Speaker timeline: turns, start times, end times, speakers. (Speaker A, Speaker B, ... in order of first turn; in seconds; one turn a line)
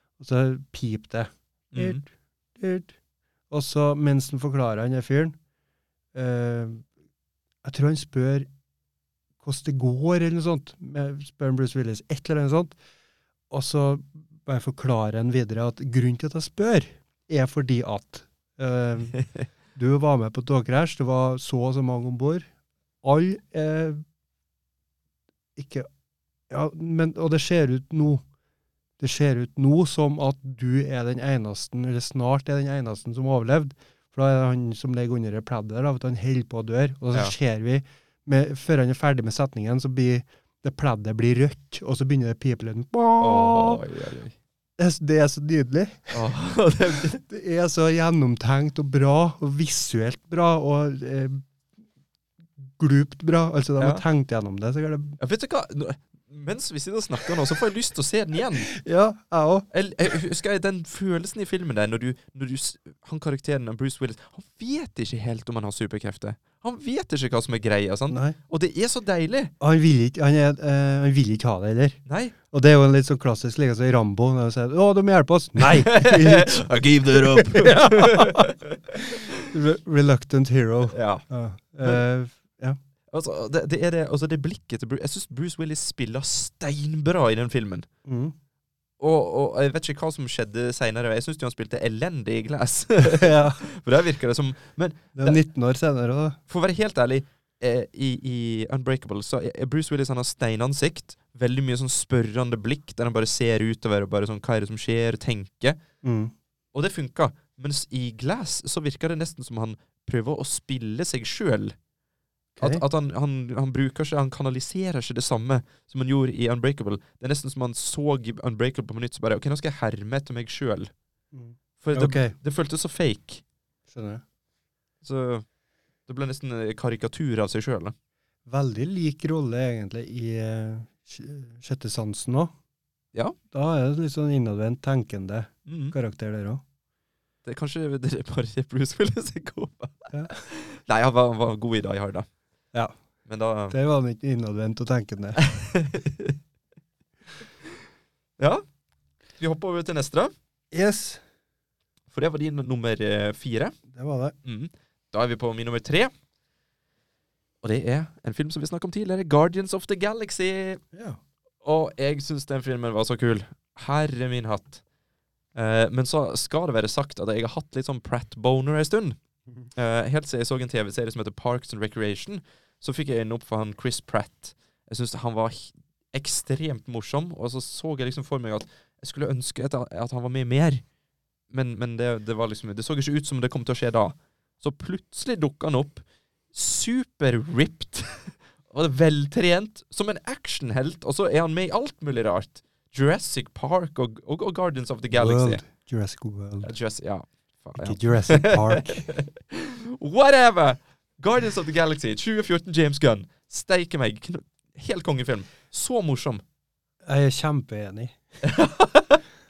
Speaker A: 0.2-2.9
Speaker B: 1.7-2.0
Speaker A: 3.5-5.3
Speaker A: 6.1-6.8
Speaker A: 7.6-8.5
Speaker A: 9.4-12.8
Speaker A: 13.5-19.2
Speaker B: 19.1-19.4
Speaker A: 19.7-22.5
Speaker A: 23.0-24.0
Speaker A: 25.6-25.9
Speaker A: 26.5-28.2
Speaker A: 29.0-43.8
Speaker B: 43.2-44.3
Speaker A: 44.8-46.2
Speaker B: 46.1-47.2
Speaker A: 47.2-51.4
Speaker A: 52.6-55.2
Speaker B: 53.8-54.0
Speaker B: 55.2-58.7
Speaker A: 58.8-59.7
Speaker B: 59.7-69.5
Speaker A: 68.1-68.4
Speaker A: 69.6-82.8
Speaker B: 72.0-72.3
Speaker B: 75.6-79.2
Speaker B: 80.9-81.2
Speaker B: 83.1-87.9
Speaker A: 88.0-88.3
Speaker B: 89.0-95.4
Speaker A: 93.0-93.6
Speaker A: 95.2-96.4
Speaker B: 96.5-105.8
Speaker A: 106.0-106.3
Speaker B: 106.7-111.7
Speaker A: 112.6-112.8
Speaker B: 112.6-120.9
Speaker A: 121.3-122.3
Speaker B: 121.8-123.4
Speaker A: 123.9-124.2
Speaker B: 125.0-125.4
Speaker B: 126.1-127.9
Speaker A: 128.5-132.5
Speaker A: 133.5-136.6
Speaker B: 135.7-135.9
Speaker B: 137.4-142.3
Speaker A: 140.1-140.4
Speaker B: 143.2-143.8
Speaker A: 143.7-145.4
Speaker B: 145.4-146.4
Speaker B: 148.4-148.6
Speaker B: 149.3-150.3
Speaker A: 150.7-151.2
Speaker B: 152.1-153.7
Speaker A: 153.9-154.3
Speaker B: 154.4-156.1
Speaker B: 157.6-160.8
Speaker A: 160.9-161.2
Speaker B: 161.6-164.8
Speaker B: 165.5-169.2
Speaker B: 169.7-180.8
Speaker B: 181.5-195.6
Speaker A: 195.1-196.7
Speaker B: 196.6-206.4
Speaker A: 197.8-199.1
Speaker A: 207.1-208.1
Speaker B: 208.4-209.2